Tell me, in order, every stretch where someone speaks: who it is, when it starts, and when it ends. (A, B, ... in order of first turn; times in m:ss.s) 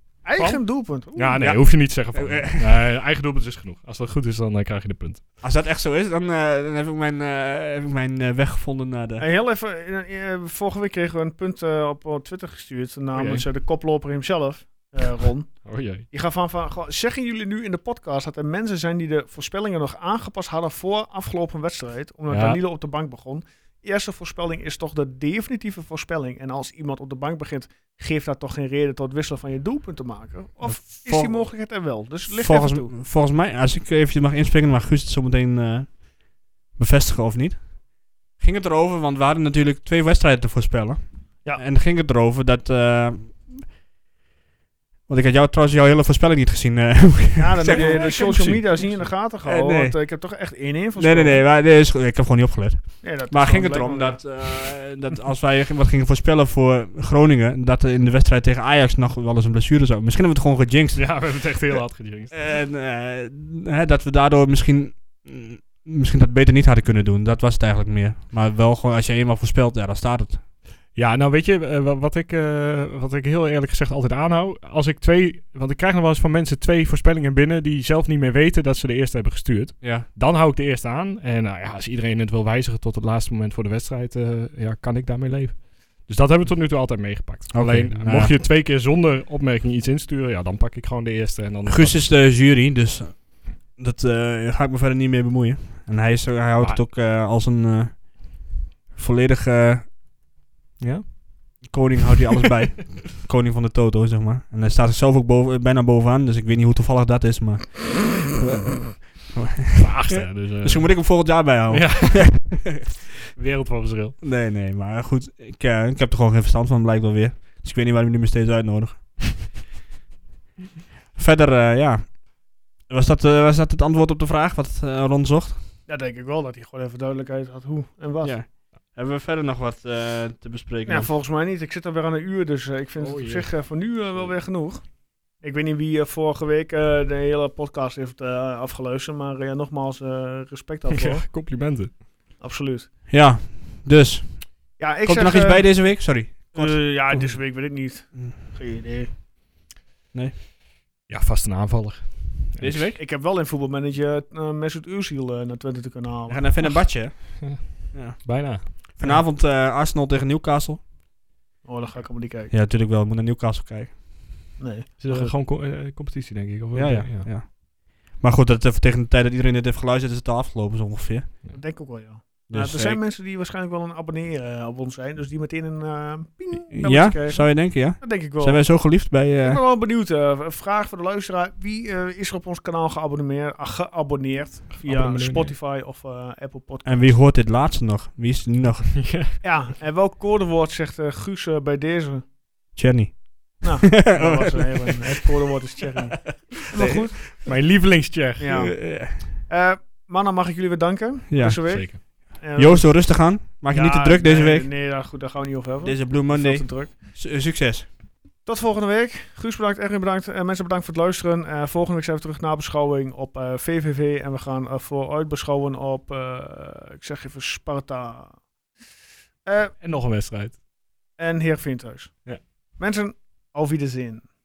0:00.2-0:01.6 A
0:00.4-0:05.2 B
0:01.4-0:02.7 C
0:05.4-0:09.3 C
0:09.2-0:32.9 A
0:13.2-0:13.5 B
0:15.6-0:16.1 B
0:22.3-0:22.6 B
0:30.6-0:31.7 C
0:32.3-0:43.7 C
0:45.1-0:48.3 C
0:47.4-0:51.5 A
0:47.7-0:49.2 B
0:49.4-0:50.1 C
0:51.0-1:10.4 C
0:53.0-0:54.2 A
1:01.0-1:02.5 B
1:10.9-1:32.1 B
1:19.8-1:20.1 C
1:27.5-1:28.4 C
1:31.7-1:39.9 C
1:40.8-1:41.7 B
1:41.6-1:52.9 C
1:49.8-1:54.2 B
1:54.2-1:59.5 C
2:01.2-2:05.7 C
2:05.9-2:08.4 A
2:08.2-2:11.1 C
2:10.9-2:21.3 A
2:13.0-2:14.4 B
2:20.9-2:22.0 B
2:22.4-2:22.9 A
2:23.1-2:28.3 C
2:24.8-2:29.1 A
2:31.1-2:32.9 B
2:32.6-2:33.0 C
2:33.0-2:36.7 A
2:36.3-2:40.9 C
2:37.4-2:39.2 B
2:41.6-2:42.5 A
2:42.5-2:44.0 C
2:44.6-2:45.4 A
2:45.0-2:47.3 B
2:46.7-2:51.4 C
2:51.5-3:07.2 A
2:52.5-2:53.0 C
2:56.7-2:59.6 C
3:04.7-3:05.6 B
3:06.8-3:09.2 C
3:09.0-3:09.3 B
3:09.4-3:12.3 A
3:12.7-3:15.3 C
3:13.6-3:17.3 A
3:16.2-3:17.5 C
3:17.4-3:18.7 B
3:18.4-3:26.9 A
3:18.5-3:19.3 C
3:21.3-3:24.7 C
3:21.7-3:22.0 B
3:25.8-3:27.9 C
3:28.4-3:38.4 A
3:39.4-3:39.7 A
3:39.8-3:40.6 B
3:41.2-3:44.3 A